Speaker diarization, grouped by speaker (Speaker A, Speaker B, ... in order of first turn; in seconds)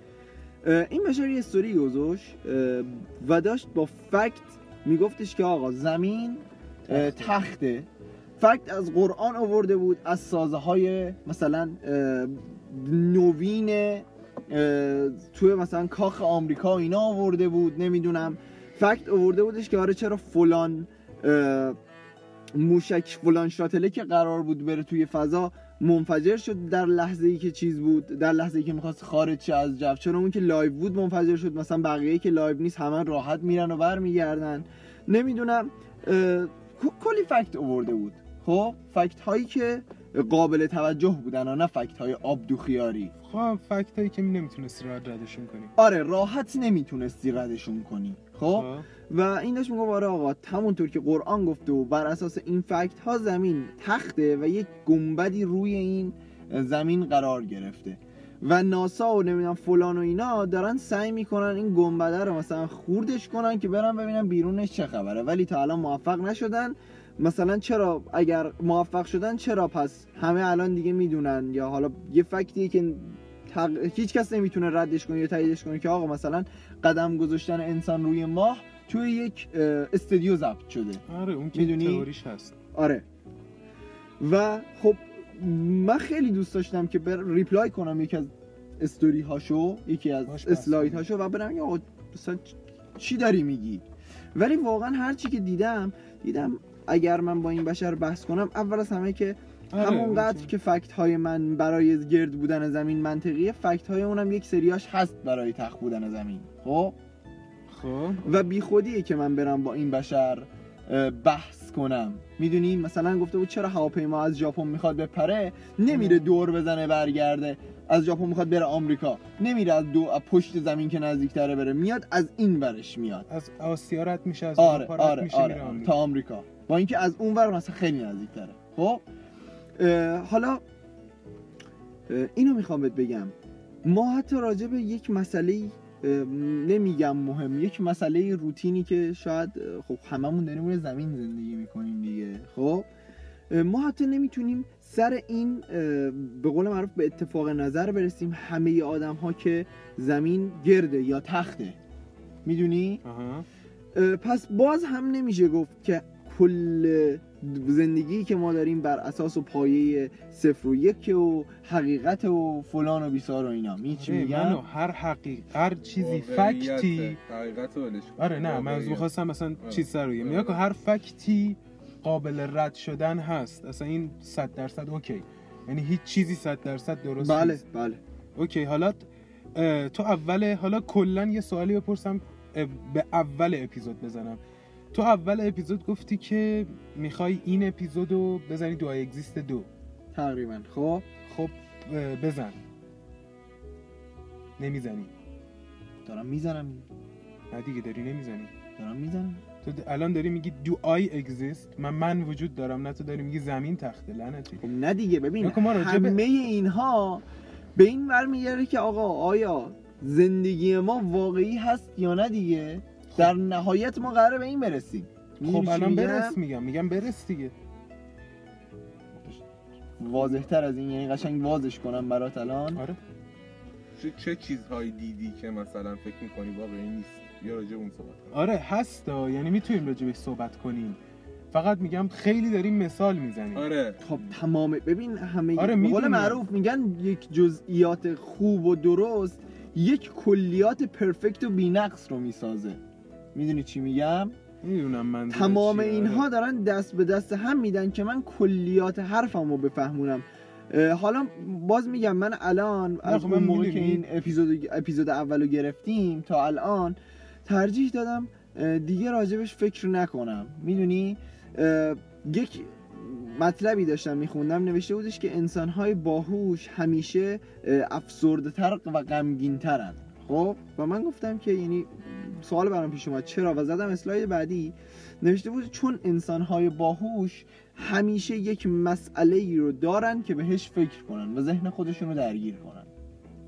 Speaker A: 0.6-21.8, 22.5-43.1, 45.8-81.0, 81.5-82.1, 82.7-83.0, 84.2-93.8, 94.3-107.0, 108.2-123.3, 124.6-129.0, 129.8-130.6, 132.1-142.9, 143.5-151.8, 152.4-153.0, 153.9-164.6, 177.2-178.0, 190.1-191.1, 196.1-196.9, 198.8-199.4, 204.6-207.2, 207.8-216.4, 220.0-222.8, 234.0-242.8, 243.3-244.3, 245.3-282.9
Speaker B: 6.9-7.4, 43.2-45.7, 48.5-48.9, 81.1-82.6, 90.3-91.0, 99.7-100.5, 107.7-108.2, 115.9-116.2, 123.3-126.0, 153.0-153.5, 163.9-167.2, 168.2-177.6, 178.4-184.4, 184.9-189.7, 191.3-192.6, 194.6-195.1, 197.5-198.5, 199.6-204.6, 205.4-206.2, 215.4-217.5, 228.3-231.0, 231.5-233.7, 235.6-236.4, 244.6-246.3, 253.0-254.0
Speaker C: 166.0-169.1, 169.6-170.6, 224.0-228.3, 233.6-234.0